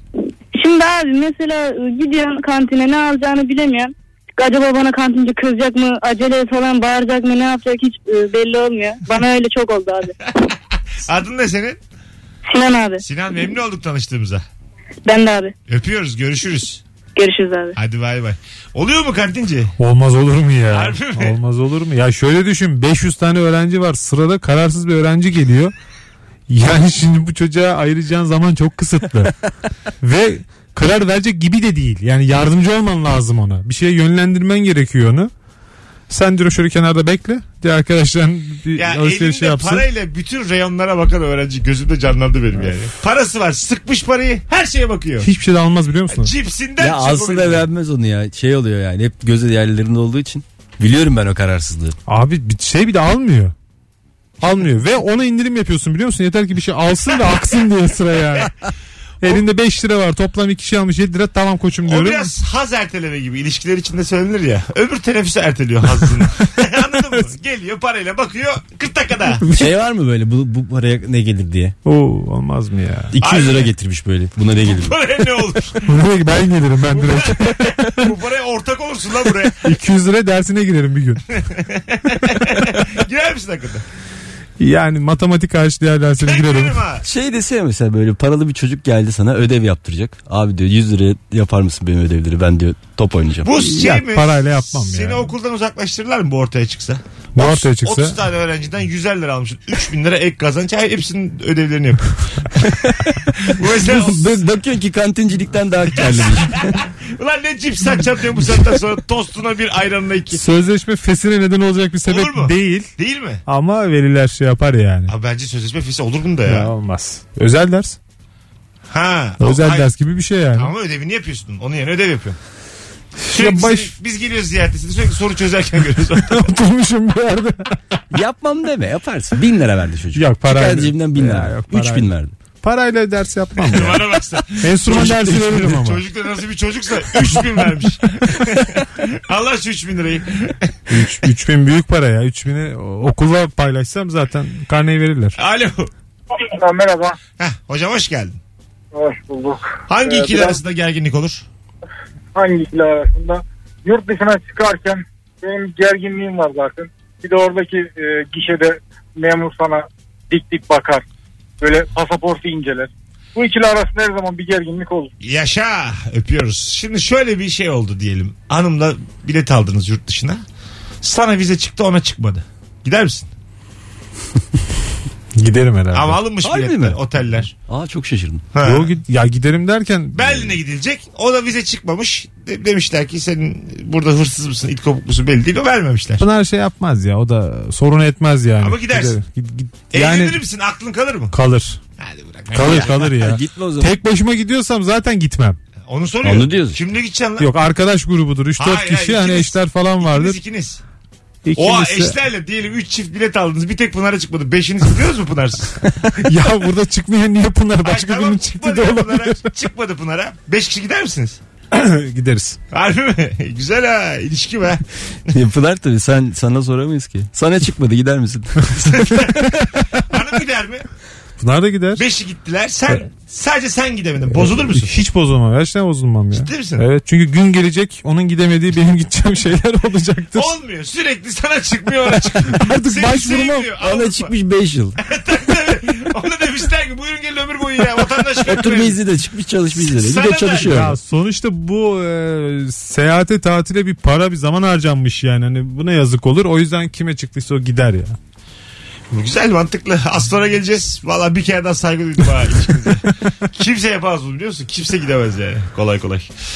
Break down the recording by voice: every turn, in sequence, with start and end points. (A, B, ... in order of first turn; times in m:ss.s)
0:00.6-0:10.2 A
0:10.4-0:11.8 B
0:12.5-0:13.0 A
0:13.0-0:14.4 B
0:15.1-0:15.5 A
0:15.7-0:16.8 B
0:17.2-0:17.8 A
0:17.7-0:19.8 B
0:19.8-0:25.7 C
0:20.7-0:21.4 B
0:26.5-0:29.4 C
0:30.0-0:35.3 C
0:36.1-0:39.9 C
0:38.8-0:45.3 B
0:45.2-0:46.3 C
0:46.1-0:47.7 B
0:46.8-0:52.0 D
0:52.1-0:53.5 C
0:54.4-0:58.5 C
0:59.2-1:02.3 C
1:01.9-1:09.4 B
1:09.5-1:11.8 D
1:11.8-1:13.1 C
1:13.1-1:15.0 D
1:13.2-1:13.7 B
1:14.7-1:16.0 B
1:15.9-1:18.1 C
1:16.9-1:19.8 B
1:19.6-1:21.2 C
1:21.3-1:23.8 B
1:24.6-1:26.8 C
1:26.2-1:27.0 B
1:27.0-1:33.7 D
1:33.4-1:42.7 B
1:33.7-1:35.3 C
1:37.4-1:38.2 C
1:43.4-1:44.4 B
1:43.8-1:46.7 D
1:46.0-1:50.4 B
1:50.3-1:52.9 C
1:52.1-1:53.4 B
1:53.5-1:55.1 C
1:55.1-1:56.7 B
1:56.5-1:58.0 C
1:58.9-1:59.9 B
1:59.4-2:00.7 C
2:00.5-2:02.4 B
2:03.2-2:03.9 C
2:03.3-2:06.6 B
2:06.2-2:07.8 C
2:08.1-2:12.3 D
2:10.1-2:12.1 C
2:12.6-2:16.0 C
2:13.6-2:20.7 B
2:14.9-2:15.7 D
2:20.9-2:25.4 C
2:25.4-2:25.9 B
2:26.5-2:27.2 E
2:27.4-2:28.4 B
2:28.9-2:30.6 E
2:29.9-2:31.5 B
2:32.4-2:41.0 E
2:41.6-2:45.1 E
2:45.2-2:50.4 B
2:51.0-2:53.3 B
2:55.4-2:56.2 C
2:55.9-2:57.5 B
2:56.4-2:57.0 D
2:57.6-2:58.5 D
2:58.5-2:59.0 B
2:58.6-3:00.6 C
3:00.1-3:06.2 B
3:06.2-3:10.4 C
3:08.6-3:09.2 B
3:09.9-3:11.4 B
3:11.3-3:11.8 C
3:12.0-3:13.1 B
3:12.5-3:15.6 C
3:12.6-3:14.0 D
3:15.8-3:17.5 B
3:16.2-3:16.8 D
3:17.4-3:20.4 C
3:18.6-3:20.8 B
3:21.5-3:22.2 C
3:21.6-3:25.8 B
3:26.2-3:29.5 C
3:27.8-3:31.4 B
3:31.7-3:32.6 C
3:32.7-3:34.8 B
3:35.3-3:39.4 D
3:38.9-3:40.9 B
3:41.4-3:42.0 C
3:42.0-3:45.0 B
3:44.4-3:50.5 C
3:46.3-3:46.8 B
3:50.3-3:54.4 B
3:52.2-3:53.7 C
3:53.8-3:55.0 D
3:55.0-3:59.0 B
3:58.4-4:01.0 D
3:59.7-4:00.9 B
4:00.6-4:08.2 C
4:09.1-4:16.3 B